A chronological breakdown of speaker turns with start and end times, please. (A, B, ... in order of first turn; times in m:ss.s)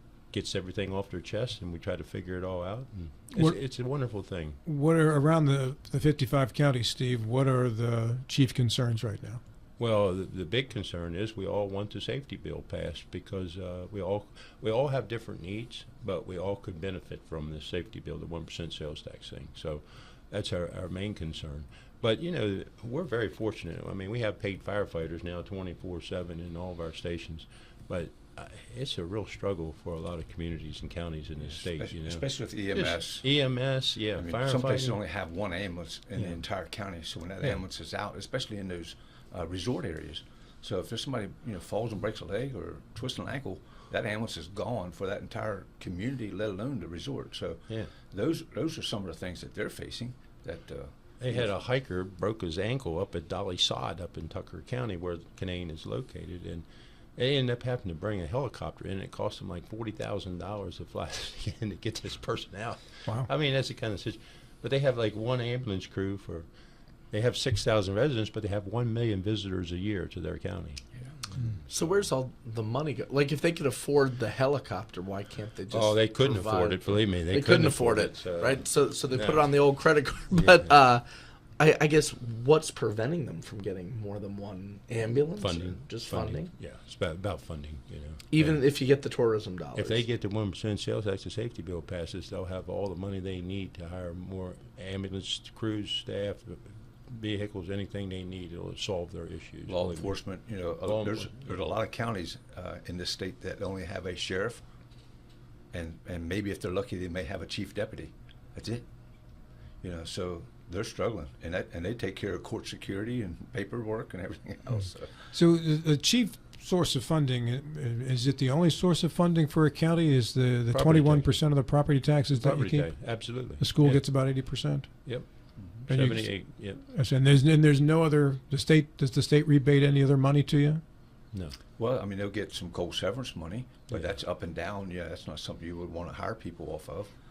0:00.3-0:04.6 A
0:04.6-0:09.4 B
0:09.8-0:35.0 A
0:31.6-0:33.2 C
0:34.1-0:51.4 C
0:51.2-0:56.6 A
0:57.2-1:06.5 A
1:07.1-1:10.8 A
1:11.7-1:21.0 D
1:15.7-1:20.8 A
1:21.6-1:26.5 D
1:25.4-1:28.6 A
1:28.3-1:30.0 D
1:29.7-1:40.1 A
1:39.7-1:44.6 C
1:40.8-1:41.4 A
1:45.7-1:48.8 C
1:49.8-1:55.1 C
1:55.3-2:05.0 B
2:00.7-2:01.3 A
2:02.4-2:04.1 A
2:05.6-2:05.9 C
2:05.8-2:06.8 A
2:05.9-2:10.8 B
2:11.3-2:11.6 A
2:11.8-2:17.1 C